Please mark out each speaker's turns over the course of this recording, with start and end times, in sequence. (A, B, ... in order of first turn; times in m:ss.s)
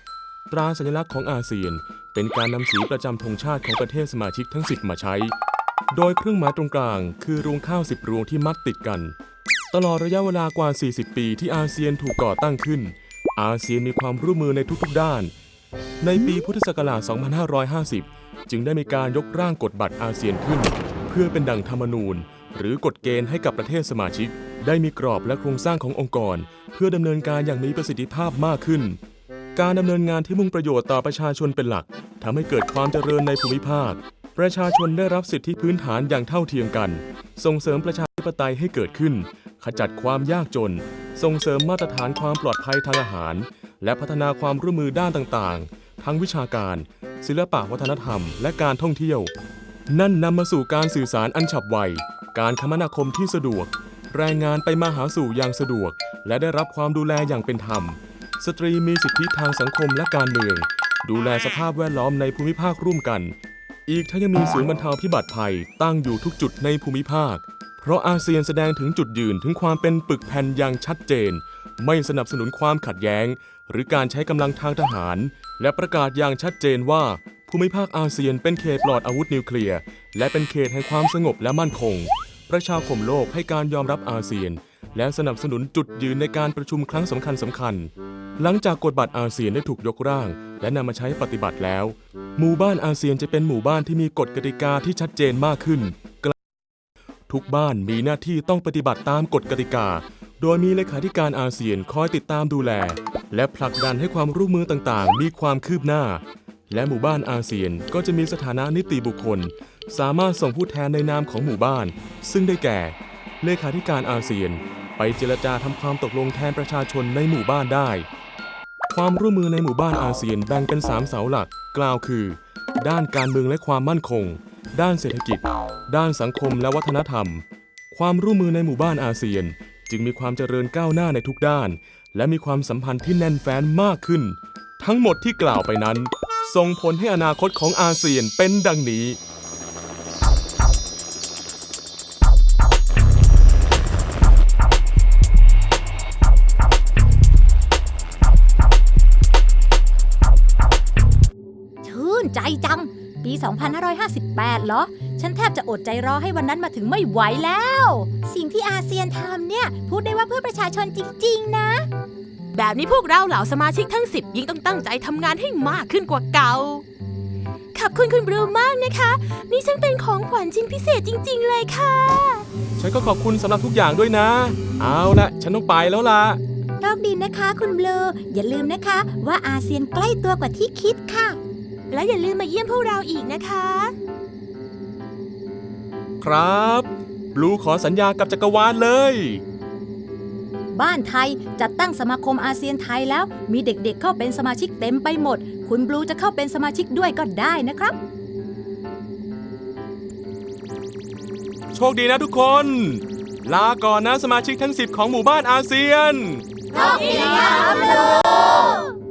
0:00.5-0:05.3 A
0:05.9-0:09.1 A
0:09.7-0:15.3 A
0:16.0-0:29.0 A
0:29.6-0:49.3 A
0:49.9-1:03.4 A
1:03.9-1:36.3 A
1:37.3-1:58.0 A
1:58.9-2:19.2 A
2:31.8-2:41.9 B
2:42.5-2:46.8 C
2:47.7-2:52.5 C
2:52.8-2:56.4 A
2:56.8-3:01.4 B
3:01.9-3:03.9 C
3:06.2-3:09.4 A
3:10.7-3:18.0 B
3:21.7-3:26.4 A
3:26.7-3:28.7 C
3:26.7-3:28.9 B